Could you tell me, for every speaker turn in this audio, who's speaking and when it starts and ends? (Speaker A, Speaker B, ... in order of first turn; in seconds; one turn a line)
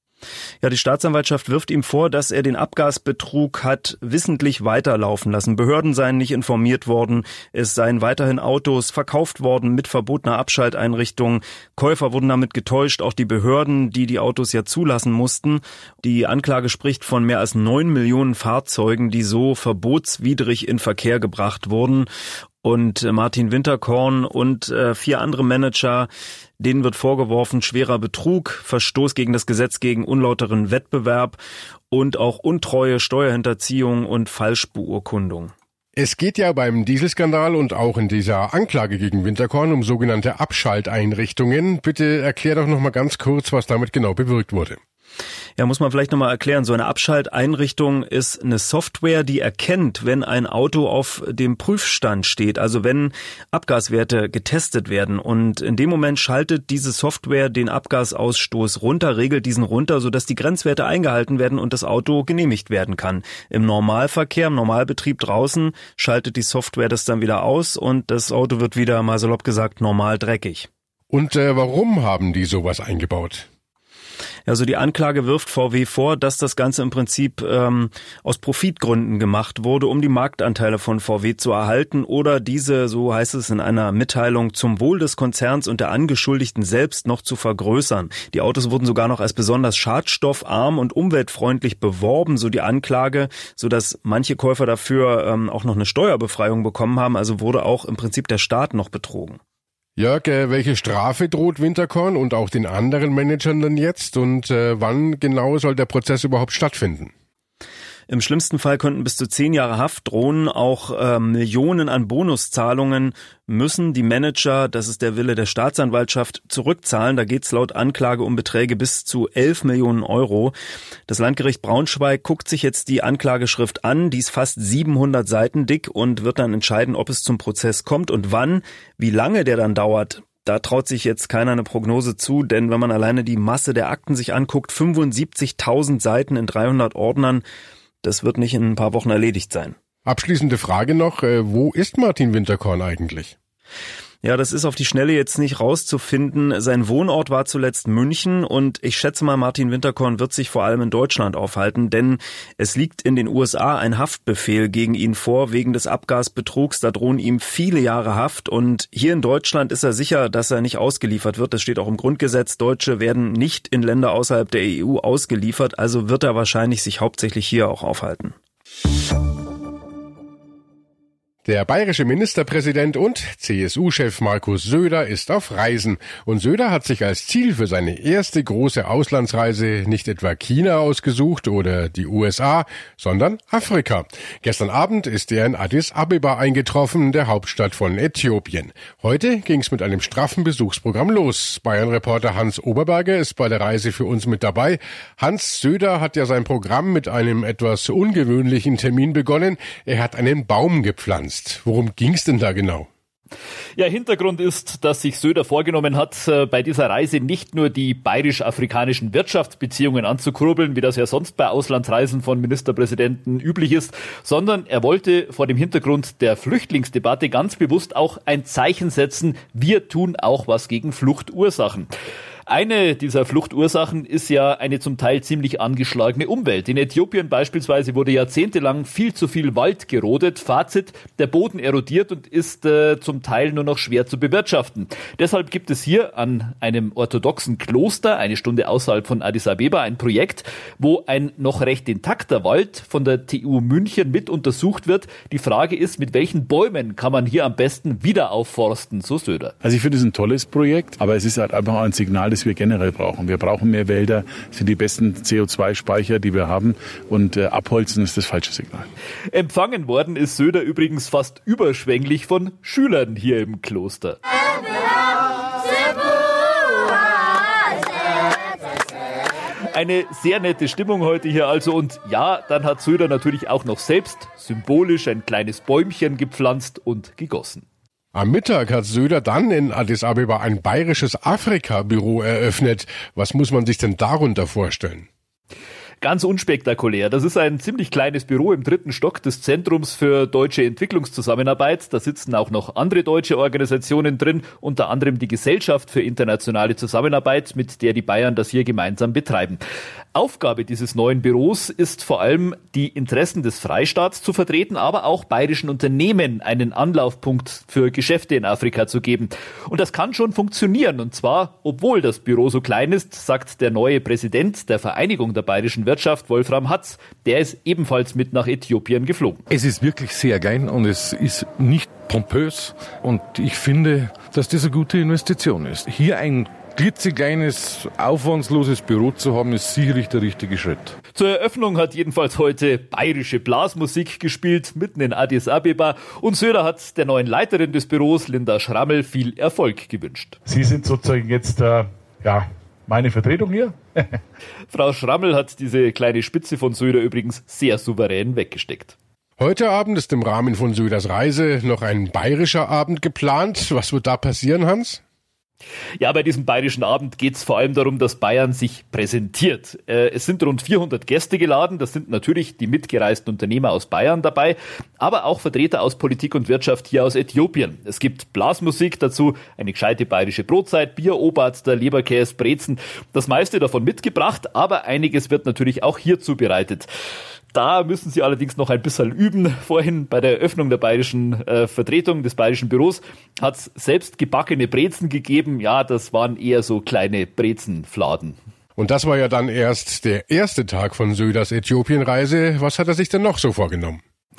Speaker A: 0.6-22.1
Speaker A: 22.6-31.4
Speaker A: 31.9-35.5
Speaker B: 36.0-44.8
Speaker A: 45.6-70.7
Speaker B: 71.1-73.5
Speaker A: 74.5-99.4
Speaker B: 100.0-107.1
Speaker A: 108.1-120.5
Speaker A: 121.1-137.4
Speaker A: 138.0-139.7
Speaker B: 140.1-143.3
Speaker A: 144.2-168.3
Speaker B: 171.4-202.9
Speaker C: 203.8-221.9
Speaker C: 222.5-249.5
Speaker D: 249.6-258.9
Speaker C: 259.3-264.2
Speaker C: 269.7-277.6
Speaker B: 278.1-285.1
Speaker C: 286.0-299.6
Speaker C: 300.1-319.4
Speaker E: 319.5-330.9
Speaker C: 331.1-340.4
Speaker F: 340.5-343.8
Speaker C: 344.7-348.9
Speaker B: 349.4-355.0
Speaker C: 356.0-376.9
Speaker C: 377.5-388.3
Speaker B: 388.8-394.0